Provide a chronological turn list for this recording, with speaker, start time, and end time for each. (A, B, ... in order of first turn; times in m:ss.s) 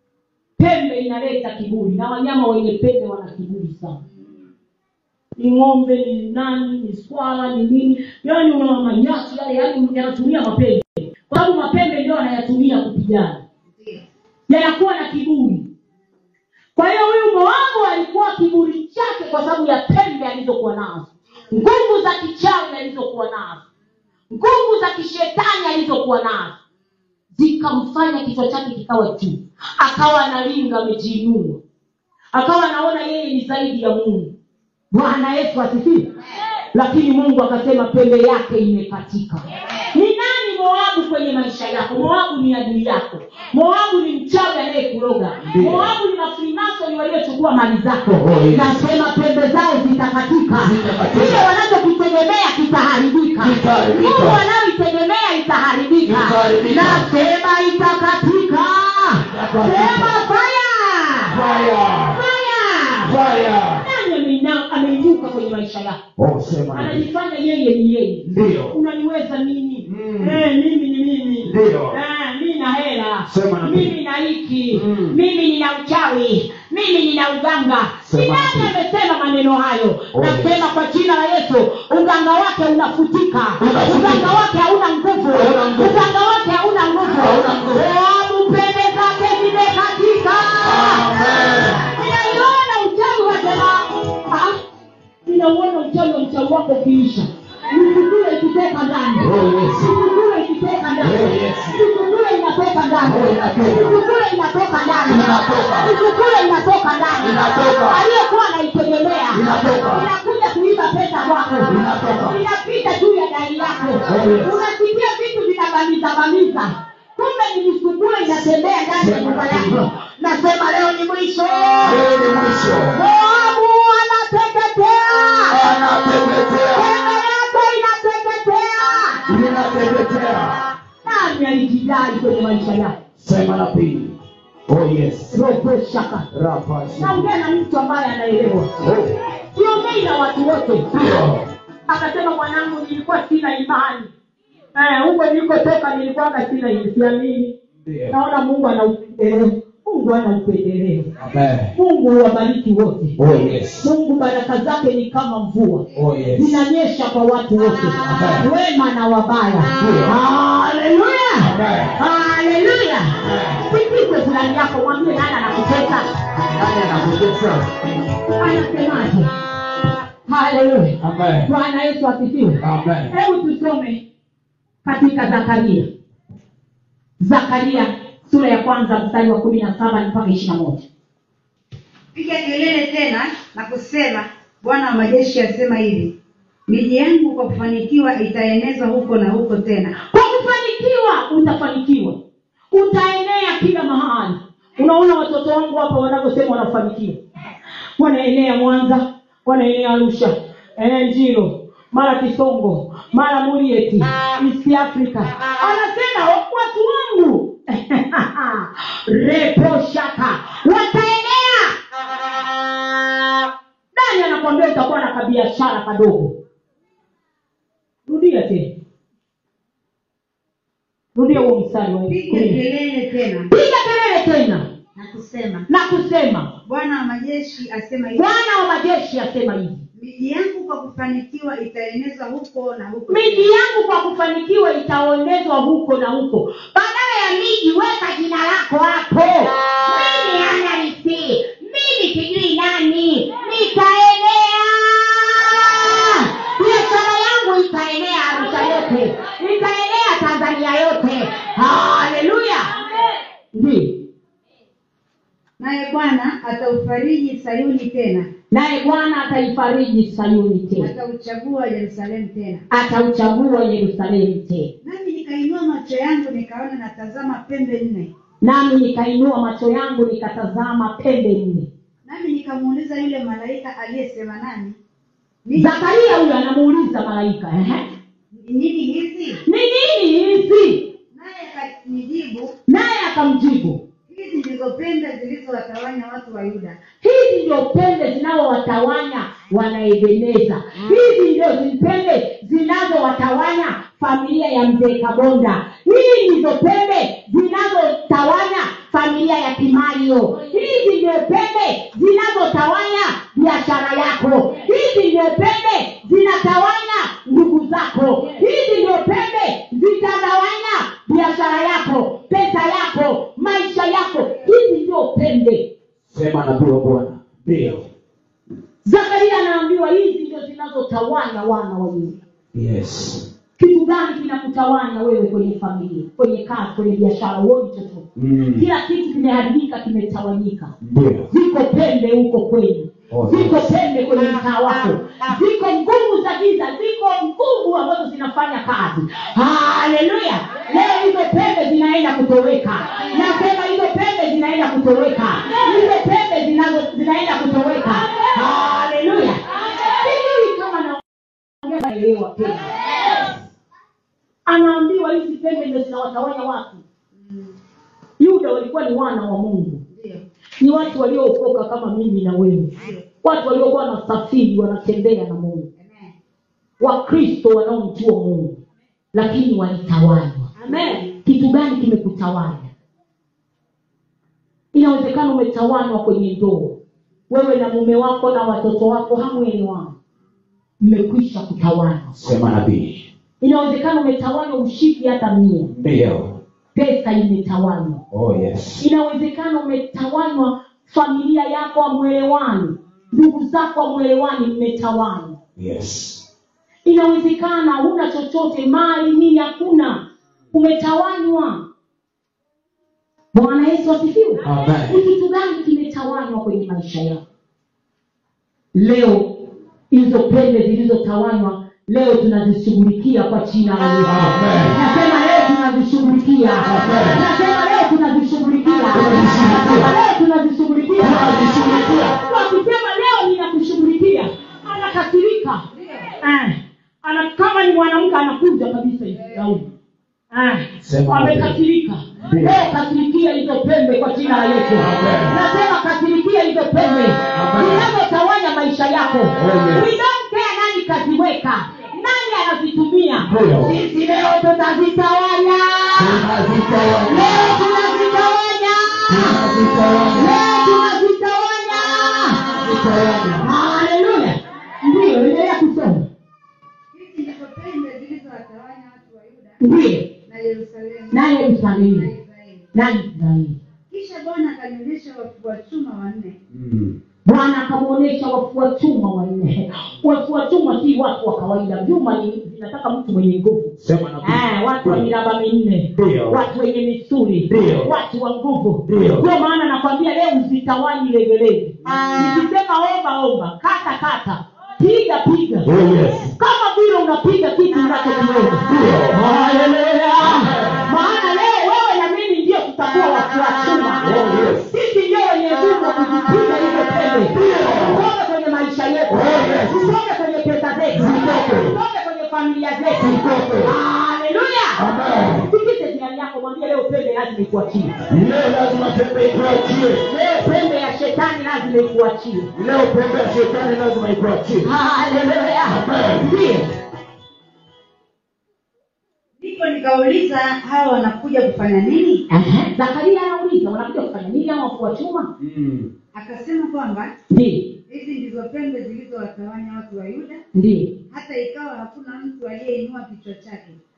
0:00.6-0:04.0 A
0:05.4-0:13.4 A
0:13.7-0:14.0 B
0:14.5-0:15.7 A
0:16.8-0:23.6 A
0:24.3-0:26.6 A
0:27.3-0:31.6 A
0:32.3-0:34.3 A
0:34.9-0:36.1 A
0:36.7-1:01.4 A
0:45.4-0:45.9 C
0:48.1-0:48.8 C
0:50.5-0:51.5 C
0:53.4-0:54.4 C
0:56.0-0:57.1 C
0:59.2-1:00.2 C
1:01.3-1:02.2 C
1:02.1-1:03.2 A
1:03.0-1:03.8 C
1:03.7-1:06.0 A
1:06.2-1:07.1 C
1:06.7-1:31.1 A
1:08.2-1:08.8 C
1:09.8-1:10.4 C
1:11.4-1:12.0 C
1:13.2-1:13.9 C
1:14.7-1:15.2 C
1:18.0-1:18.7 C
1:20.1-1:20.6 C
1:23.6-1:24.3 C
1:25.3-1:26.1 C
1:27.0-1:27.9 C
1:30.6-1:31.9 C
1:31.7-1:34.6 A
1:35.2-2:02.0 A
1:39.2-1:39.9 C
1:41.0-1:41.8 C
1:43.0-1:44.0 C
1:45.1-1:45.9 C
1:47.2-1:48.0 C
1:49.3-1:50.1 C
1:51.7-1:52.4 C
1:54.0-1:54.5 C
1:58.9-1:59.8 C
2:01.8-2:03.0 C
2:02.9-2:05.6 A
2:05.5-2:06.9 C
2:06.7-2:09.2 A
2:09.2-2:10.6 C
2:11.0-2:13.0 A
2:13.2-2:15.4 C
2:15.3-2:16.3 A
2:16.3-2:17.3 C
2:17.0-2:18.7 A
2:18.7-2:19.1 C
2:19.5-2:21.1 A
2:20.9-2:21.4 C
2:21.9-2:24.1 A
2:24.7-2:27.5 A
2:27.8-2:28.2 C
2:28.1-2:31.1 A
2:31.2-2:31.7 C
2:31.7-2:33.2 A
2:33.2-2:33.9 C
2:33.7-2:46.0 A
2:35.9-2:36.6 C
2:38.0-2:38.5 C
2:39.8-2:40.2 C
2:41.4-2:42.0 C
2:43.2-2:43.6 C
2:46.5-2:47.7 C
2:48.4-2:49.3 A
2:50.3-2:54.0 A
2:51.0-2:51.5 C
2:52.6-2:53.1 C
2:54.8-2:55.9 A
2:57.2-3:00.9 A
3:02.1-3:06.1 B
3:06.7-3:10.0 B
3:10.0-3:12.2 A
3:12.7-3:17.2 A
3:18.0-3:31.7 A
3:33.9-3:36.3 A
3:38.1-3:38.7 A
3:41.1-3:42.6 A
3:42.1-3:43.5 B
3:43.5-3:44.7 A
3:44.9-3:45.7 B
3:45.7-3:46.5 A
3:46.6-3:48.2 B
3:48.1-3:49.8 A
3:50.0-3:53.5 B
3:53.1-4:12.7 A
4:13.5-4:14.0 A
4:15.6-4:18.3 B
4:18.5-4:20.9 A
4:20.8-4:22.6 B
4:22.7-4:24.7 A
4:24.8-4:28.1 B
4:28.4-4:31.7 A
4:32.0-4:34.8 B
4:35.4-4:35.9 B
4:35.5-4:37.8 A
4:38.3-4:39.4 B
4:39.4-4:40.9 A
4:41.1-4:42.5 B
4:42.7-4:43.8 A
4:44.1-4:46.8 B
4:47.0-5:15.7 A
5:16.1-5:17.9 C
5:18.8-5:22.2 A
5:22.5-5:23.3 C
5:23.6-5:30.7 A
5:28.2-5:28.7 C
5:30.8-5:31.3 C
5:31.3-5:51.0 A
5:33.1-5:33.7 C
5:51.6-5:53.2 A
5:54.4-5:56.8 A
5:57.1-5:57.5 B
5:58.2-5:59.8 A
5:59.9-6:00.2 B
6:00.6-6:05.7 A
6:02.8-6:03.0 B
6:05.8-6:06.1 B
6:06.8-6:08.6 A
6:09.1-6:12.7 A
6:10.7-6:11.2 B
6:14.7-6:16.8 A
6:17.3-6:20.0 A
6:20.8-6:22.2 A
6:22.2-6:23.0 C
6:23.4-6:25.7 A
6:25.7-6:26.4 C
6:26.7-6:28.0 A
6:28.1-6:28.8 C
6:28.8-6:35.4 A
6:35.6-6:36.2 C
6:36.8-6:41.6 A
6:43.3-6:47.2 A
6:44.4-6:45.0 C
6:48.7-7:01.4 A
6:54.0-6:54.8 C
6:56.6-6:57.2 C
6:58.9-6:59.9 C
7:01.0-7:02.2 C
7:01.9-7:05.6 A
7:05.7-7:06.1 B
7:06.2-7:09.6 A
7:09.2-7:09.6 B
7:10.3-7:26.2 A
7:10.8-7:11.6 C
7:12.2-7:12.7 C
7:14.8-7:15.4 C
7:17.3-7:17.9 C
7:19.3-7:19.9 C
7:23.2-7:23.7 C
7:26.0-7:27.6 C
7:27.0-7:29.4 A
7:29.1-7:30.4 C
7:30.2-7:32.4 A
7:32.4-7:33.5 C
7:33.4-7:36.0 A
7:36.9-7:39.6 B
7:39.6-7:40.1 A
7:40.2-7:42.7 B
7:41.1-7:42.1 A
7:42.7-7:43.6 A
7:43.9-7:46.4 B
7:46.5-7:47.0 C
7:47.2-8:05.7 A
7:53.8-7:55.1 C
7:55.9-7:56.4 C
7:57.5-7:57.9 C
7:58.8-7:59.3 C
8:05.6-8:06.3 C
8:06.4-8:14.1 A
8:08.6-8:09.2 C
8:10.2-8:10.9 C
8:14.0-8:14.7 C
8:14.7-8:24.8 A
8:17.3-8:18.0 C
8:19.1-8:19.9 C
8:20.9-8:21.8 C
8:22.9-8:23.7 C
8:24.8-8:25.5 C
8:25.4-8:27.9 A
8:28.1-8:30.1 C
8:30.1-8:32.5 A
8:32.5-8:34.7 C
8:34.6-8:36.7 A
8:35.7-8:36.3 C
8:39.4-8:42.2 B
8:42.3-8:45.3 A
8:45.4-8:45.9 C
8:46.1-8:47.1 B
8:47.3-8:47.8 A
8:47.9-8:50.4 B
8:50.5-8:51.0 A
8:51.1-8:53.8 B